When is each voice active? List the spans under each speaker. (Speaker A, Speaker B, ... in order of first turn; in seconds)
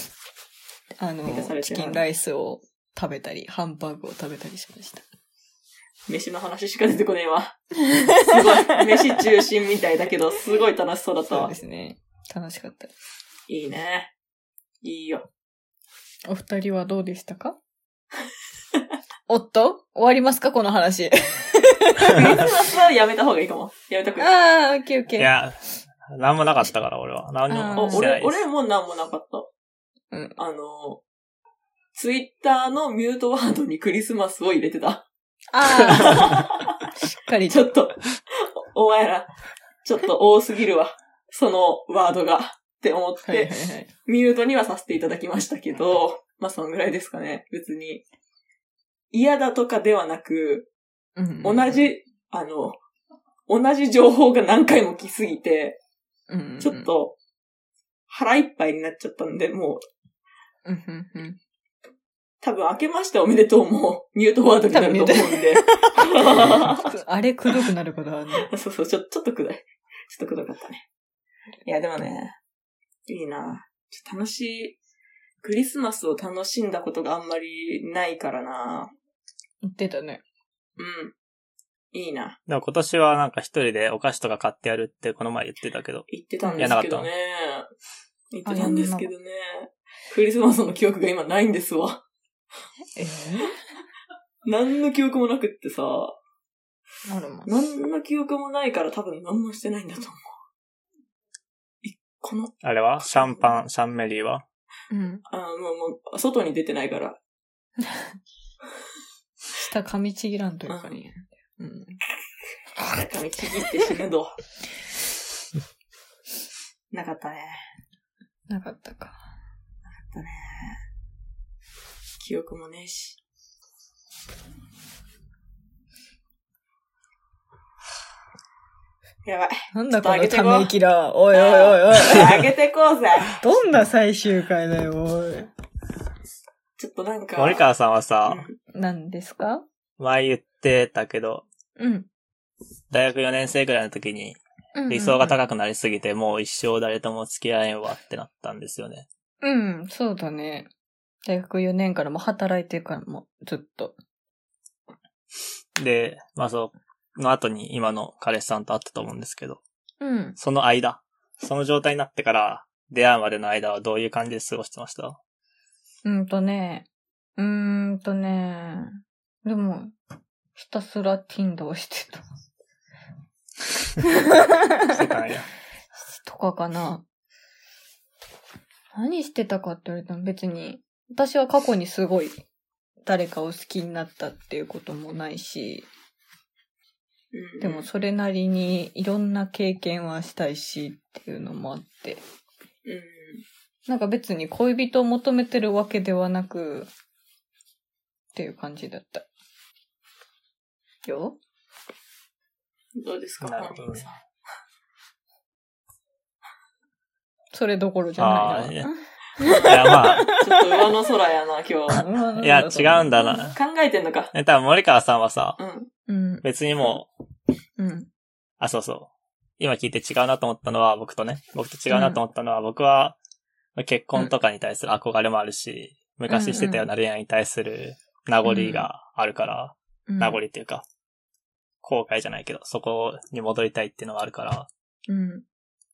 Speaker A: 1.0-5.0, 7.8-9.2, 11.3-12.9, 16.3-17.6, 19.3-22.4, 24.2-25.3, 27.5-28.1, 30.1-30.4, 35.5-37.7, 43.2-43.9, 51.2-51.8, 56.3-56.9, 60.6-61.4, 64.7-68.5, 79.6-80.2, 86.4-86.7, 88.5-89.1, 93.0-93.6, 97.0-97.5, 104.9-105.2, 109.5-112.0, 118.5-119.2, 129.7-132.5, 133.4-135.5, 138.7-139.6, 141.8-142.1, 144.7-145.3, 149.4-150.7, 151.2-154.0, 160.0-160.4, 166.0-169.9, 170.6-172.2, 174.0-175.0, 176.1-177.0, 178.9-182.4, 183.0-185.9, 187.6-192.2, 193.9-196.9, 198.3-199.3, 201.0-201.4, 207.5-210.8, 211.9-213.3, 216.1-216.4, 217.8-218.1, 221.9-222.2, 226.3-226.9, 228.4-228.9, 230.1-230.4, 235.1-235.4
Speaker B: 1.3-2.0, 6.1-7.6, 8.2-11.5, 13.5-14.1, 14.8-15.2, 22.0-24.3, 27.7-29.5, 30.4-31.0, 31.9-35.1, 35.7-36.9, 37.5-39.3, 39.8-43.5, 44.0-48.0, 49.1-50.7, 51.4-52.8, 53.5-55.8, 56.6-57.1, 58.1-59.8, 62.4-66.9, 68.4-70.8, 71.6-72.4, 73.1-74.8, 75.4-78.9, 80.8-81.1, 81.9-82.4, 86.1-87.7, 88.3-92.0, 94.4-96.2, 97.5-100.3, 101.8-103.5, 105.3-107.2, 110.7-111.0, 112.8-114.4, 116.9-117.6, 119.9-120.8, 122.2-123.2, 129.2-130.7, 131.3-133.4, 136.8-137.6, 138.3-138.6, 187.3-187.8, 192.8-193.4, 203.0-204.1, 210.3-212.0, 213.2-214.3, 215.6-215.9
Speaker C: 25.2-28.4, 82.5-86.1, 86.6-87.1, 102.6-104.4, 137.4-138.5, 140.0-141.4, 142.9-149.1, 155.8-159.6, 160.4-165.2, 174.9-175.5, 203.4-204.1, 208.2-208.9, 209.6-210.3, 212.4-213.6, 214.3-215.6, 216.4-217.1, 218.6-223.2, 223.8-230.8, 231.8-234.7